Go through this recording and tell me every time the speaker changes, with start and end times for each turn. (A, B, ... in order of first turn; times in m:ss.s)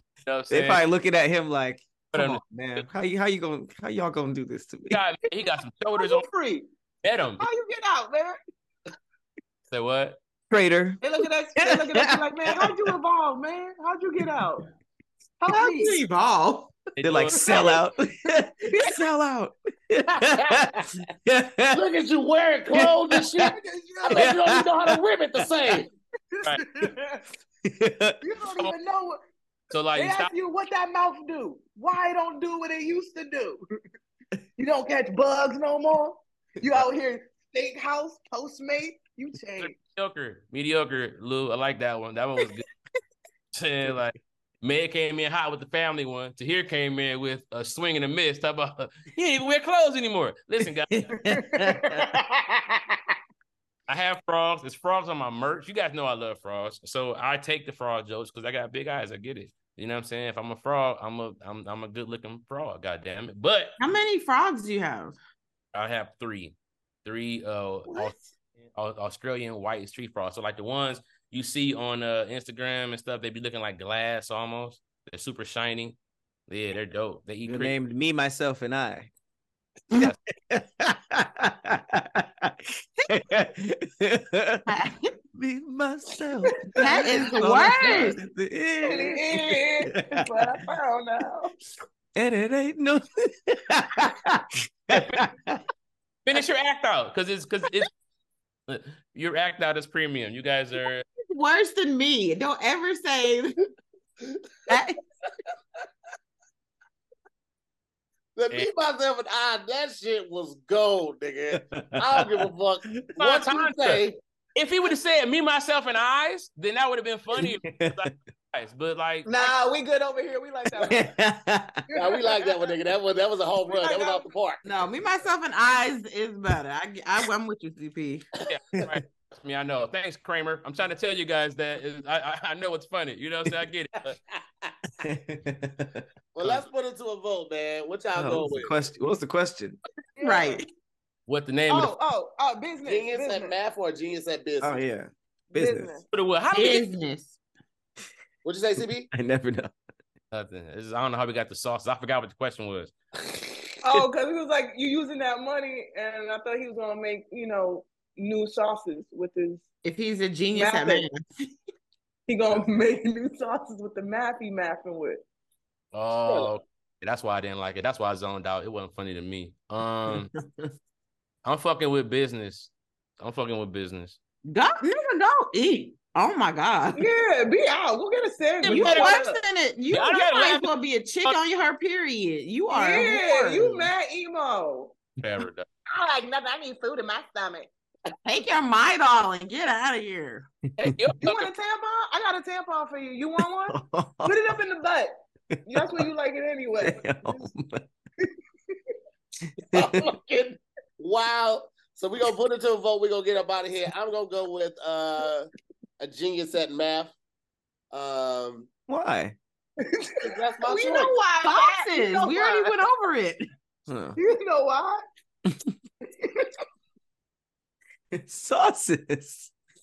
0:00.2-0:00.8 A
0:00.5-0:05.0 B
0:02.1-0:02.8 A
0:04.9-0:06.3 A
0:06.0-0:06.6 C
0:07.0-0:07.4 A
0:07.4-0:08.4 C
0:09.7-0:10.2 A
0:10.5-0:11.0 B
0:11.0-0:14.6 C
0:11.6-0:12.9 B
0:15.4-0:16.0 C
0:15.5-0:16.7 D
0:17.0-0:17.6 A
0:17.0-0:21.8 B
0:20.3-0:20.8 E
0:21.7-0:23.6 E
0:22.7-0:23.5 B
0:23.5-0:24.3 C
0:24.1-0:25.8 B
0:24.1-0:25.9 E
0:26.4-0:27.2 C
0:27.6-0:28.2 B
0:28.2-0:29.2 C
0:29.7-0:30.3 A
0:29.9-0:33.6 C
0:34.6-0:39.8 C
0:39.6-0:42.7 A
0:43.5-0:51.3 A
0:50.9-0:52.1 B
0:51.4-0:52.8 C
0:53.9-1:03.8 A
1:03.8-1:05.2 D
1:05.7-1:08.1 A
1:07.9-1:08.2 D
1:08.7-1:16.0 A
1:16.5-1:17.8 A
1:17.5-1:19.1 B
1:19.9-1:20.2 A
1:19.9-1:24.7 B
1:24.7-1:25.1 D
1:25.3-1:30.5 B
1:26.4-1:27.4 C
1:26.8-1:28.2 D
1:28.8-1:31.5 C
1:32.2-1:35.6 B
1:34.9-1:35.2 A
1:36.2-1:37.9 A
1:38.7-1:41.0 A
1:41.3-1:43.6 D
1:44.7-1:45.0 D
1:48.4-1:54.2 E
1:51.5-1:52.3 B
1:53.2-1:59.5 A
1:57.4-1:58.1 B
1:59.2-2:01.1 C
2:00.8-2:01.8 B
2:01.9-2:02.6 C
2:01.9-2:04.6 E
2:03.6-2:04.2 C
2:04.6-2:08.2 D
2:08.5-2:14.2 A
2:14.3-2:14.7 E
2:15.0-2:16.0 B
2:16.3-2:18.7 E
2:16.4-2:16.6 A
2:18.1-2:19.8 B
2:20.2-2:20.6 C
2:20.2-2:20.6 D
2:21.3-2:21.9 A
2:21.7-2:23.5 C
2:22.8-2:24.8 E
2:24.6-2:25.9 B
2:25.5-2:26.0 C
2:26.1-2:26.8 A
2:26.5-2:27.4 D
2:28.4-2:29.1 E
2:29.1-2:29.7 B
2:30.3-2:32.9 A
2:33.8-2:39.6 C
2:39.8-2:41.3 D
2:40.5-2:41.1 C
2:42.3-2:45.2 C
2:45.9-2:50.3 A
2:46.2-2:46.5 E
2:50.1-2:50.7 B
2:51.4-2:54.2 A
2:54.5-2:57.0 D
2:56.9-2:59.4 C
2:58.6-2:59.2 A
2:58.6-3:03.8 D
2:59.9-3:00.7 A
3:02.7-3:04.9 C
3:05.2-3:05.6 A
3:05.9-3:07.7 C
3:08.2-3:10.5 D
3:10.8-3:11.5 A
3:11.2-3:17.4 C
3:13.7-3:14.6 B
3:15.6-3:16.1 B
3:16.8-3:17.8 B
3:19.7-3:19.9 B
3:19.7-3:25.5 E
3:26.0-3:27.1 E
3:27.9-3:28.7 E
3:28.9-3:29.4 B
3:29.8-3:32.7 C
3:30.2-3:31.2 E
3:31.4-3:33.5 D
3:33.9-3:34.2 B
3:34.2-3:35.0 C
3:36.2-3:36.5 C
3:38.1-3:39.5 B